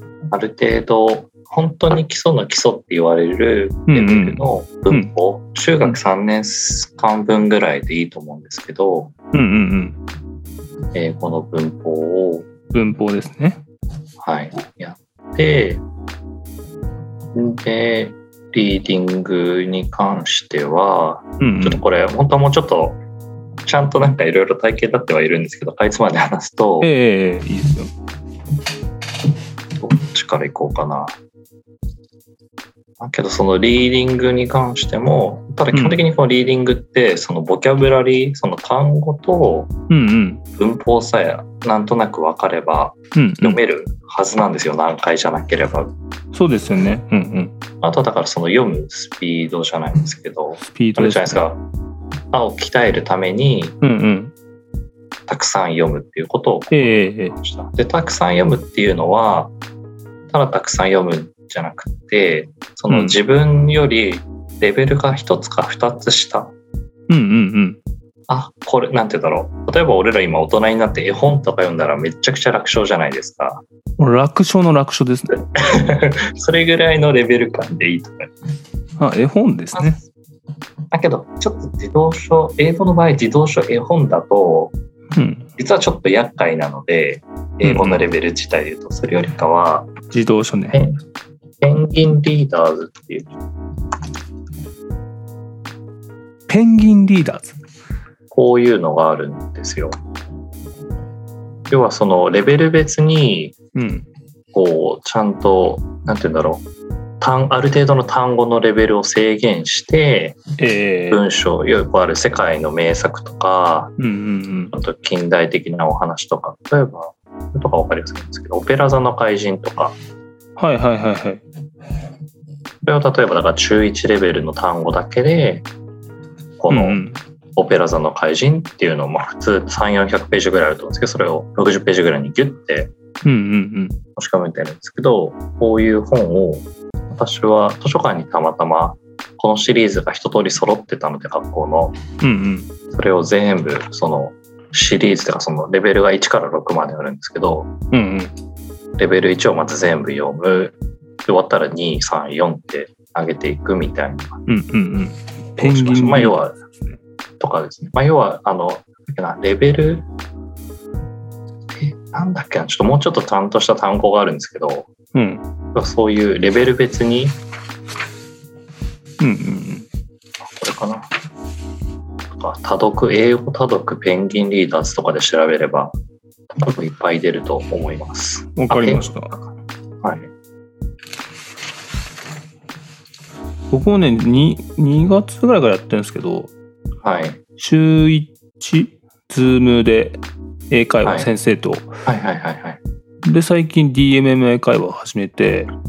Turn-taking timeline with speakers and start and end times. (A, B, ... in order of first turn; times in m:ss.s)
0:00.3-0:09.1 A
0:03.9-0:05.1 B
0:09.3-0:10.0 B
0:10.9-0:12.5 A
0:12.7-0:13.6 B
0:14.2-0:15.8 A
0:17.3-0:23.0 A
0:21.4-0:21.8 B
0:23.6-0:26.9 A
0:26.8-0:27.9 B
0:29.8-0:31.1 A
0:33.0-0:39.7 A
0:35.7-0:36.0 B
0:39.9-0:40.4 B
0:40.6-0:45.9 A
0:43.1-0:43.6 B
0:46.3-0:47.5 B
0:47.8-0:51.6 A
0:50.6-0:51.4 B
0:52.3-0:53.8 A
0:53.8-0:54.3 B
0:55.3-0:59.5 A
0:56.7-0:57.3 B
1:00.3-1:06.5 A
1:02.9-1:03.2 B
1:07.1-1:07.8 B
1:08.3-1:13.6 A
1:14.0-1:15.4 B
1:15.5-1:18.3 A
1:19.0-1:20.0 B
1:20.9-1:24.7 A
1:25.1-1:25.5 B
1:25.6-1:29.9 A
1:27.6-1:28.0 B
1:30.1-1:30.8 B
1:30.7-1:31.0 A
1:31.6-1:33.3 A
1:36.5-1:37.6 B
1:38.3-1:40.0 A
1:41.7-1:43.6 A
1:43.7-1:44.0 B
1:44.5-1:46.6 A
1:47.2-1:50.4 A
1:50.6-1:51.2 B
1:51.1-1:53.9 A
1:54.0-1:54.7 B
1:54.7-1:59.9 A
2:00.6-2:01.4 B
2:02.8-2:05.6 A
2:06.6-2:07.0 A
2:06.7-2:07.2 B
2:07.6-2:12.9 A
2:13.2-2:14.0 B
2:14.2-2:22.0 A
2:22.2-2:22.7 B
2:22.9-2:27.7 A
2:27.9-2:28.3 B
2:29.0-2:30.7 A
2:31.2-2:34.4 A
2:34.5-2:36.4 B
2:35.5-2:36.5 A
2:37.4-2:40.1 A
2:41.7-2:44.9 A
2:45.1-2:45.4 B
2:45.7-2:47.4 A
2:49.2-2:49.9 B
2:50.4-2:51.1 A
2:52.3-2:55.9 A
2:56.5-2:59.1 A
2:58.6-2:59.4 B
3:00.0-3:00.3 A
3:03.7-3:06.5 B
3:07.0-3:07.4 A
3:07.6-3:11.9 B
3:12.0-3:12.8 A
3:13.2-3:15.7 B